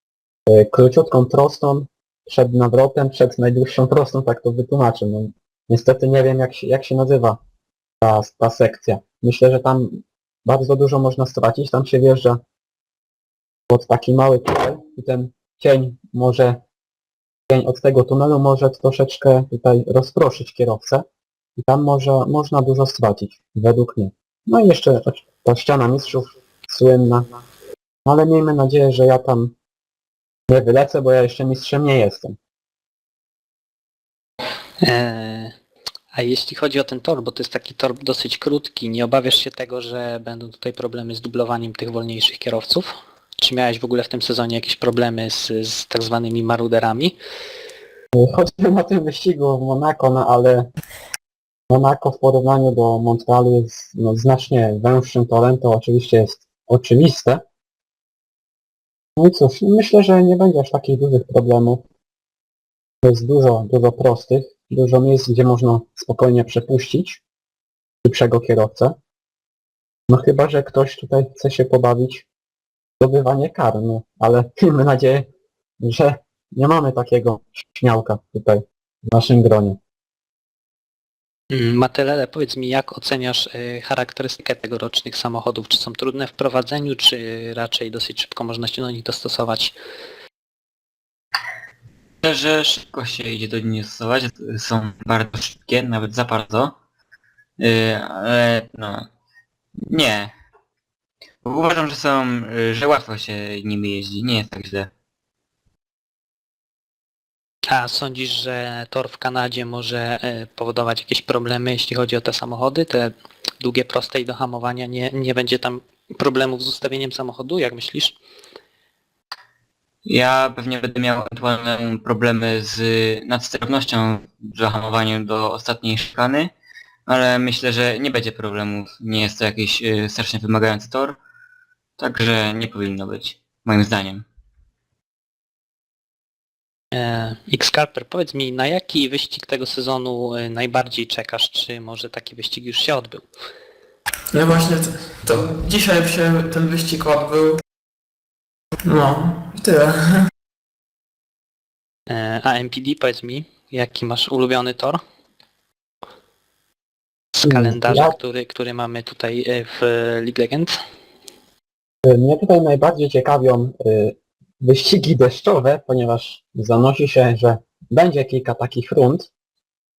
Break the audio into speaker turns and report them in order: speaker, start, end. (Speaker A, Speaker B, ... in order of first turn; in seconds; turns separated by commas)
Speaker A: 0.5-7.4, Speaker A: 8.0-12.4, Speaker A: 13.7-16.6, Speaker A: 17.5-21.0, Speaker A: 21.6-27.3, Speaker A: 28.0-29.6, Speaker A: 30.5-32.4, Speaker B: 34.8-35.5, Speaker B: 36.1-47.1, Speaker A: 48.1-50.7, Speaker A: 51.7-57.4, Speaker A: 59.1-61.8, Speaker A: 63.0-67.2, Speaker A: 68.0-69.0, Speaker A: 70.1-72.2, Speaker A: 73.0-75.3, Speaker A: 75.8-79.8, Speaker B: 81.5-89.7, Speaker C: 92.2-96.8, Speaker C: 97.6-99.0, Speaker C: 99.9-100.3, Speaker C: 101.4-104.9, Speaker B: 107.7-118.2, Speaker C: 120.0-126.5, Speaker C: 127.1-131.2, Speaker C: 132.0-134.2, Speaker B: 136.9-143.3, Speaker D: 144.3-147.6, Speaker D: 148.8-150.3, Speaker B: 152.1-155.0, Speaker B: 157.3-160.8, Speaker A: 157.4-158.1, Speaker A: 162.0-169.3